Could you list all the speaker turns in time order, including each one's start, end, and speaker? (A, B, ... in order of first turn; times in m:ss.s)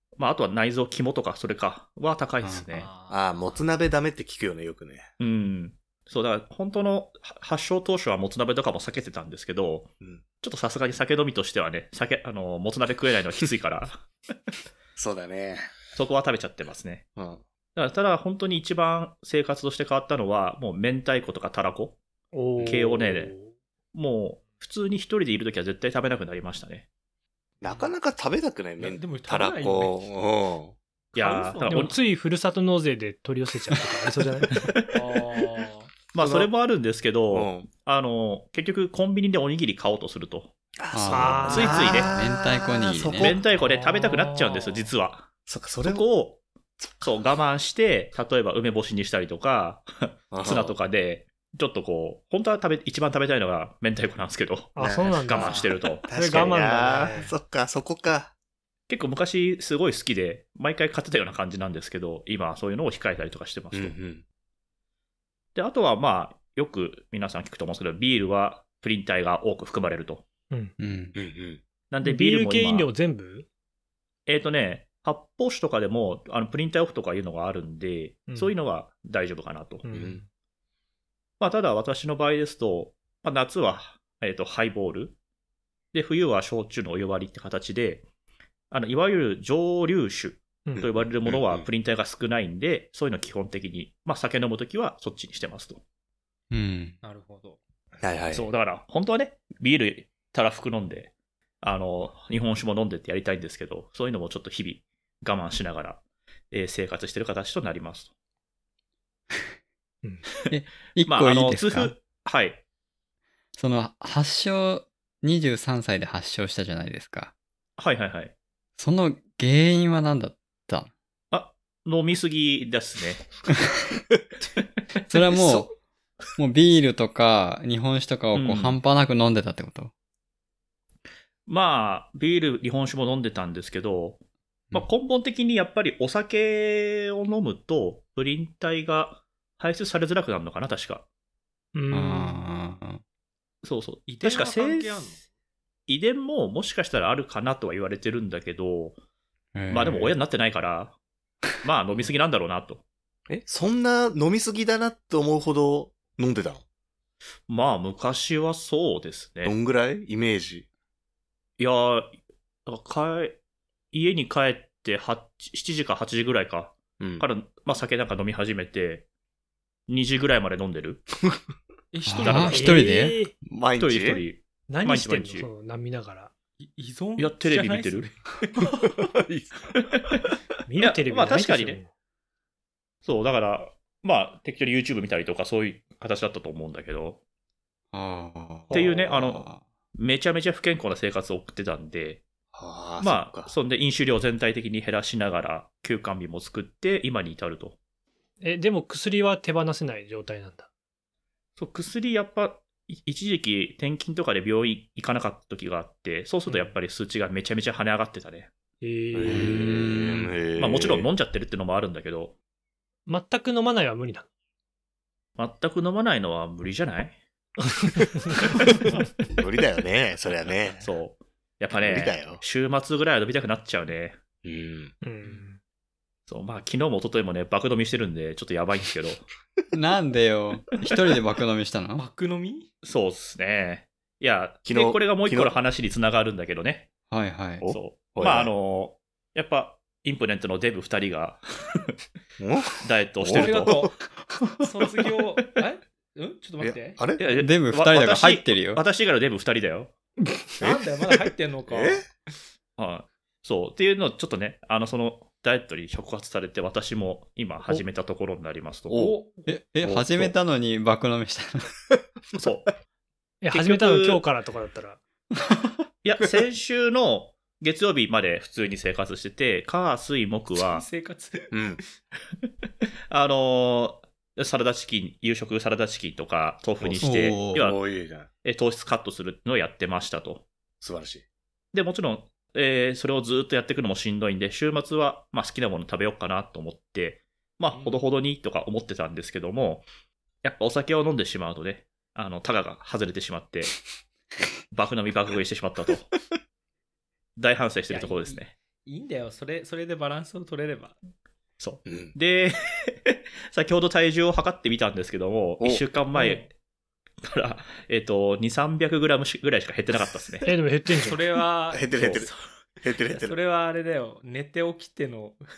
0:00.2-0:02.9 A
0:02.7-0:03.2 B
0:03.1-0:05.1 C
0:05.2-0:14.0 A
0:15.0-0:15.7 C
0:15.9-0:17.0 A
0:17.2-0:17.4 C
0:17.8-0:22.0 A
0:22.3-0:23.5 D
0:22.6-0:23.3 A
0:23.9-0:26.9 A
0:27.6-0:28.0 B
0:27.6-0:30.7 C
0:28.8-0:30.1 B
0:31.1-0:32.0 A
0:31.1-0:32.0 B
0:31.6-0:34.7 D
0:34.6-0:34.9 A
0:34.9-0:35.9 B
0:36.1-0:40.5 A
0:36.2-0:36.5 C
0:37.3-0:37.7 C
0:40.8-0:43.6 C
0:40.9-0:43.4 E
0:41.1-0:42.1 D
0:41.4-0:42.1 A
0:43.2-0:45.3 A
0:44.2-0:44.9 B
0:45.5-0:46.0 C
0:45.8-0:46.4 A
0:47.0-0:56.5 A
0:50.3-0:50.8 C
0:54.8-0:57.3 D
0:54.8-0:58.3 C
0:58.9-1:04.0 A
1:03.7-1:04.2 C
1:05.6-1:10.2 A
1:10.8-1:11.2 E
1:11.2-1:11.6 C
1:11.9-1:12.9 A
1:12.0-1:13.5 D
1:14.3-1:19.8 A
1:18.3-1:18.5 D
1:19.8-1:20.3 D
1:19.9-1:20.2 C
1:21.4-1:25.2 A
1:25.9-1:28.0 A
1:28.7-1:35.8 A
1:30.8-1:31.7 C
1:36.5-1:37.0 E
1:37.0-1:37.6 B
1:38.0-1:38.5 C
1:38.3-1:48.1 A
1:50.5-1:51.9 E
1:51.0-1:52.6 A
1:53.6-1:57.3 E
1:57.8-1:58.3 A
1:58.8-2:00.9 E
2:01.3-2:03.3 A
2:05.1-2:05.7 E
2:05.3-2:05.7 C
2:06.4-2:09.9 E
2:08.3-2:08.8 A
2:11.5-2:14.2 A
2:14.7-2:21.0 A
2:21.7-2:22.4 D
2:21.9-2:23.0 E
2:23.6-2:25.1 A
2:24.1-2:25.2 B
2:25.9-2:29.0 A
2:29.5-2:30.2 E
2:29.7-2:31.0 A
2:31.6-2:32.8 A
2:33.3-2:36.6 C
2:37.5-2:39.6 A
2:39.4-2:40.7 C
2:41.6-2:43.4 A
2:43.9-2:49.1 A
2:47.0-2:47.3 C
2:49.9-2:51.0 A
2:51.9-2:52.9 B
2:52.1-2:53.2 E
2:52.2-2:52.6 A
2:52.3-2:53.3 D
2:53.4-2:54.2 C
2:53.8-2:55.5 A
2:54.7-2:56.3 D
2:56.6-2:58.7 B
2:57.2-2:58.1 A
2:59.1-2:59.7 C
2:59.8-3:00.2 A
3:00.7-3:01.9 D
3:00.8-3:01.8 A
3:03.0-3:07.2 A
3:07.9-3:09.6 E
3:08.7-3:09.0 C
3:08.7-3:12.2 A
3:12.5-3:13.5 C
3:13.0-3:17.8 A
3:18.4-3:20.7 D
3:21.6-3:28.5 A
3:28.8-3:29.8 D
3:29.1-3:31.1 C
3:29.3-3:30.3 E
3:30.6-3:32.4 A
3:33.1-3:34.3 D
3:35.4-3:37.2 A
3:37.8-3:38.4 D
3:39.3-3:40.8 C
3:40.8-3:44.2 A
3:41.8-3:42.4 C
3:44.4-3:45.0 C
3:45.0-3:45.6 D
3:46.3-3:49.2 A
3:49.7-3:52.1 E
3:52.0-3:52.7 B
3:52.8-3:56.9 A
3:54.7-3:55.6 C
3:57.1-3:57.6 E
3:57.6-3:58.5 C
3:57.7-4:01.8 A
4:02.4-4:03.9 C
4:02.8-4:03.9 A
4:03.3-4:04.0 B
4:04.6-4:07.0 B
4:06.6-4:07.2 C
4:07.2-4:09.9 A
4:07.4-4:08.8 E
4:10.6-4:12.1 B
4:10.6-4:12.1 C
4:12.8-4:19.1 A
4:18.9-4:19.2 C
4:18.9-4:19.4 B
4:19.5-4:21.7 E
4:19.8-4:20.3 C
4:22.4-4:22.7 A
4:23.4-4:25.0 D
4:23.5-4:24.2 A
4:26.0-4:30.9 A
4:30.6-4:31.8 B
4:31.5-4:31.8 C
4:33.1-4:37.8 A
4:36.8-4:38.3 C
4:37.0-4:37.6 E
4:38.4-4:40.5 A
4:40.8-4:41.2 C
4:41.7-4:49.9 A
4:47.7-4:48.0 B
4:50.4-4:53.8 A
4:54.7-4:56.1 A
4:57.4-4:58.5 A
4:57.9-5:01.0 B
5:01.6-5:06.5 A
5:01.9-5:02.1 C
5:06.1-5:06.5 B
5:07.2-5:10.5 A
5:10.4-5:11.2 D
5:11.0-5:12.4 B
5:11.7-5:12.3 C
5:11.9-5:12.2 A
5:12.8-5:13.4 C
5:13.1-5:15.4 B